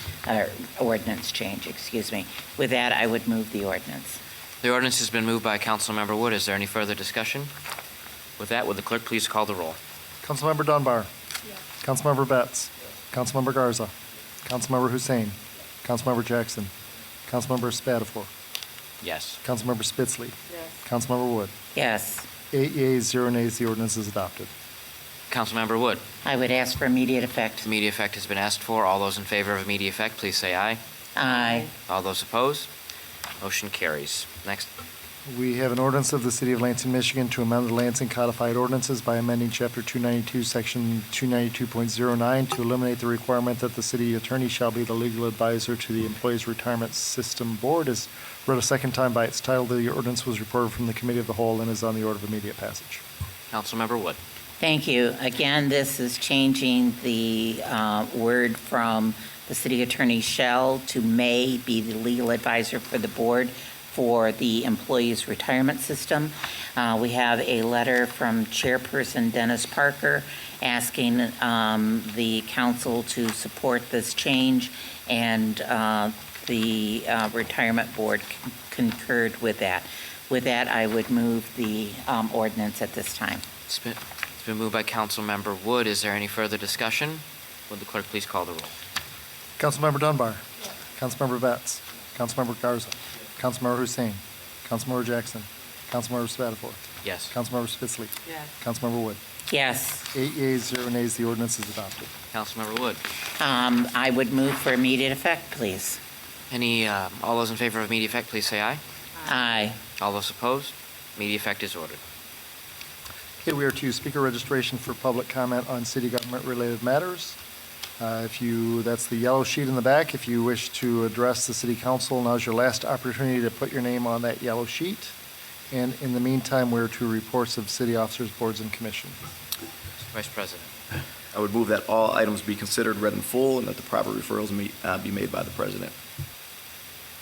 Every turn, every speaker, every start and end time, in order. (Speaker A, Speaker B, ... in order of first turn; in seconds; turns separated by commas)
Speaker A: 0.2-4.2, Speaker B: 4.6-7.5, Speaker B: 8.4-9.8, Speaker C: 10.2-11.1, Speaker C: 11.8-13.9, Speaker C: 14.4-16.7, Speaker C: 17.3-18.3, Speaker B: 19.0-19.4, Speaker C: 19.4-21.5, Speaker A: 21.8-22.3, Speaker C: 22.5-24.5, Speaker B: 25.3-26.0, Speaker A: 26.2-27.7, Speaker B: 27.6-30.8, Speaker A: 31.2-31.7, Speaker B: 31.9-32.7, Speaker B: 33.4-34.7, Speaker C: 35.3-53.0, Speaker B: 53.5-54.2, Speaker A: 54.6-83.5, Speaker B: 83.7-88.7, Speaker C: 89.6-90.4, Speaker C: 91.0-99.2, Speaker B: 97.0-97.3, Speaker A: 99.5-100.1, Speaker C: 100.1-102.1, Speaker B: 102.3-103.0, Speaker A: 103.4-106.0, Speaker B: 106.5-108.8, Speaker A: 109.2-109.8, Speaker B: 110.0-112.0, Speaker C: 113.4-117.4, Speaker C: 118.0-125.1, Speaker C: 125.7-129.2, Speaker B: 130.0-130.7, Speaker D: 131.3-135.9